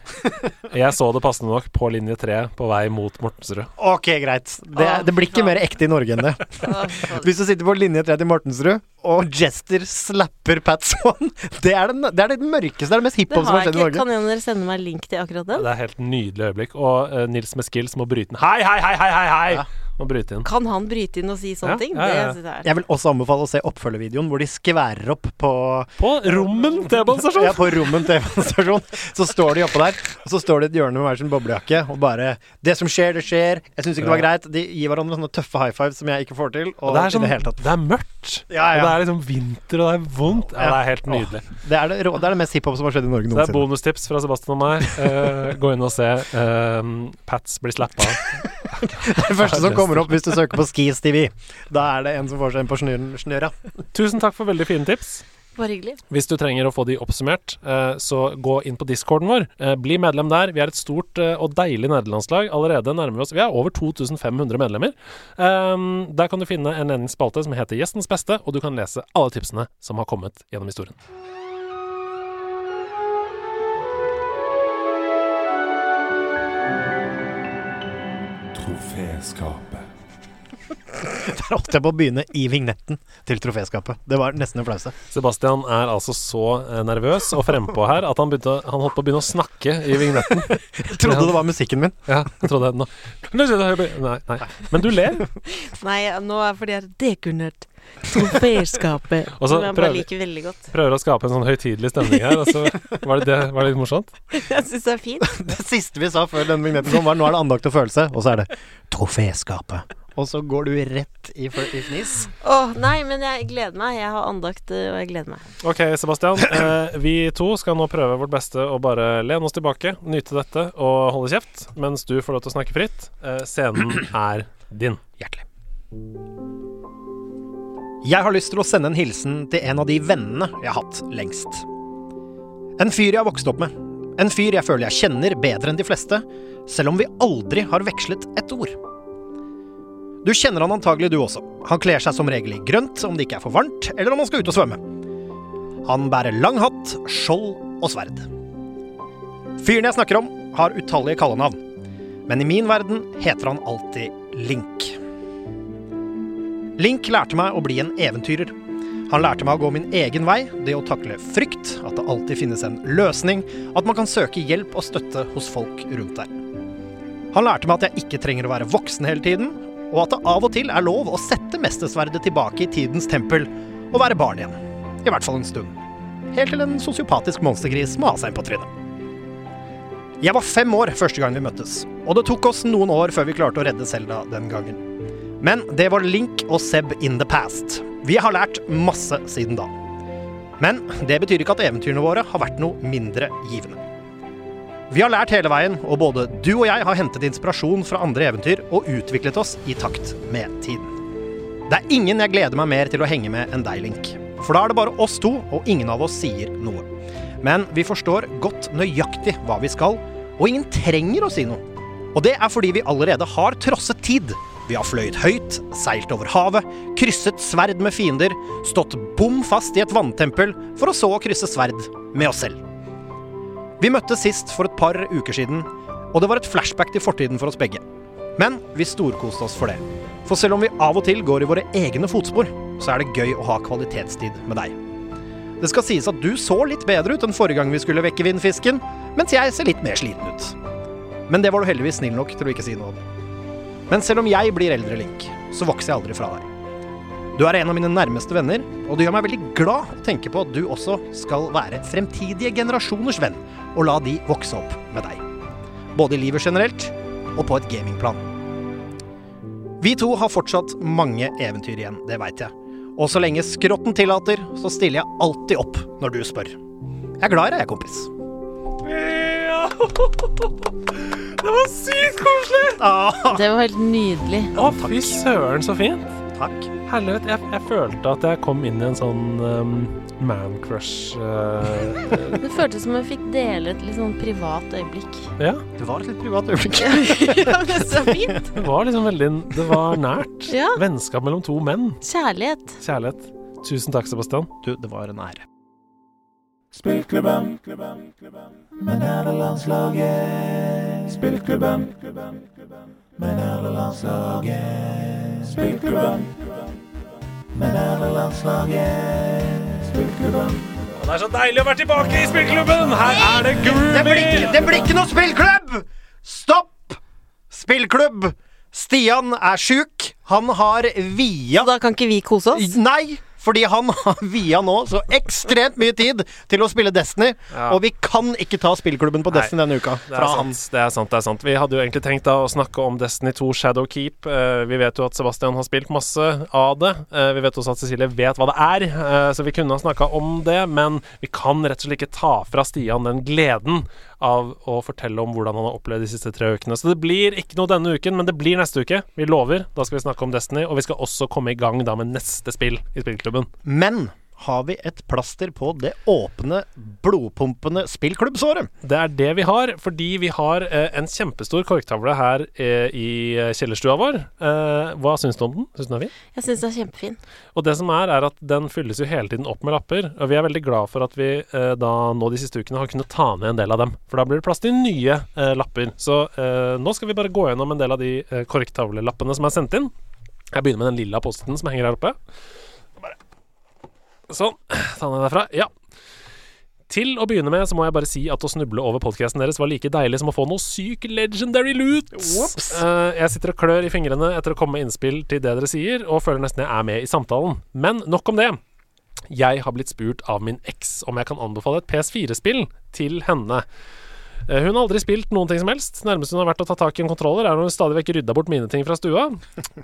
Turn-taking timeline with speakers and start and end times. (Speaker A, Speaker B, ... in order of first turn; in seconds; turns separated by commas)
Speaker A: 0.6-3.7, Speaker B: 3.8-14.1, Speaker C: 4.8-5.5, Speaker C: 6.6-7.3, Speaker C: 13.3-15.7, Speaker A: 15.6-20.5, Speaker C: 20.4-22.7, Speaker A: 21.6-22.4, Speaker B: 22.6-37.6, Speaker A: 26.0-28.1, Speaker A: 34.0-34.2, Speaker A: 36.9-41.5, Speaker B: 38.5-39.0, Speaker B: 40.5-43.7, Speaker A: 43.3-50.2, Speaker B: 48.6-53.5, Speaker A: 53.9-55.2, Speaker C: 55.5-56.0, Speaker A: 56.1-70.9, Speaker D: 78.5-79.9, Speaker B: 81.0-84.9, Speaker A: 85.1-91.4, Speaker B: 90.4-92.1, Speaker A: 92.1-95.3, Speaker C: 95.5-100.7, Speaker A: 99.4-100.1, Speaker A: 100.7-104.1, Speaker C: 104.3-105.3, Speaker B: 105.2-112.3, Speaker C: 112.4-115.4, Speaker A: 115.6-125.0, Speaker B: 125.2-125.4, Speaker B: 128.0-131.7, Speaker B: 132.8-138.8, Speaker B: 140.2-144.8, Speaker B: 145.8-148.3, Speaker B: 149.6-151.6, Speaker B: 152.3-155.0, Speaker B: 156.8-158.6, Speaker B: 159.1-166.3, Speaker B: 167.3-175.8, Speaker B: 176.3-178.7, Speaker B: 180.2-184.8, Speaker B: 185.4-189.7, Speaker B: 190.6-193.8, Speaker B: 194.9-200.9, Speaker B: 201.7-206.9, Speaker B: 207.4-222.6, Speaker B: 223.8-227.8, Speaker B: 228.3-234.8, Speaker B: 235.6-240.6, Speaker B: 241.3-243.0, Speaker B: 243.9-246.5, Speaker B: 247.3-255.2, Speaker B: 255.9-258.3, Speaker B: 259.8-266.6, Speaker B: 267.2-268.1, Speaker A: 268.8-272.8, Speaker B: 272.8-273.4, Speaker C: 273.3-274.5, Speaker A: 274.5-276.1, Speaker B: 274.6-275.2, Speaker B: 276.3-276.7, Speaker A: 276.9-282.4, Speaker C: 282.4-285.3, Speaker A: 285.4-285.6, Speaker B: 285.8-288.4, Speaker C: 286.8-288.5, Speaker A: 288.5-292.0, Speaker C: 290.5-290.8, Speaker C: 292.0-292.8, Speaker A: 292.8-294.5, Speaker B: 294.6-295.4, Speaker D: 296.7-298.1, Speaker D: 298.7-302.4, Speaker D: 303.1-306.4, Speaker D: 307.5-310.7, Speaker A: 310.9-314.7, Speaker B: 313.3-321.7, Speaker C: 321.6-322.7, Speaker B: 322.5-330.6, Speaker A: 327.5-327.8, Speaker A: 330.1-353.5, Speaker B: 353.6-358.7, Speaker A: 358.8-366.1, Speaker C: 366.3-367.2, Speaker A: 367.5-379.9, Speaker A: 380.5-382.2, Speaker A: 384.3-385.7, Speaker A: 386.9-398.6, Speaker B: 392.1-392.8, Speaker A: 399.3-403.6, Speaker A: 404.5-409.4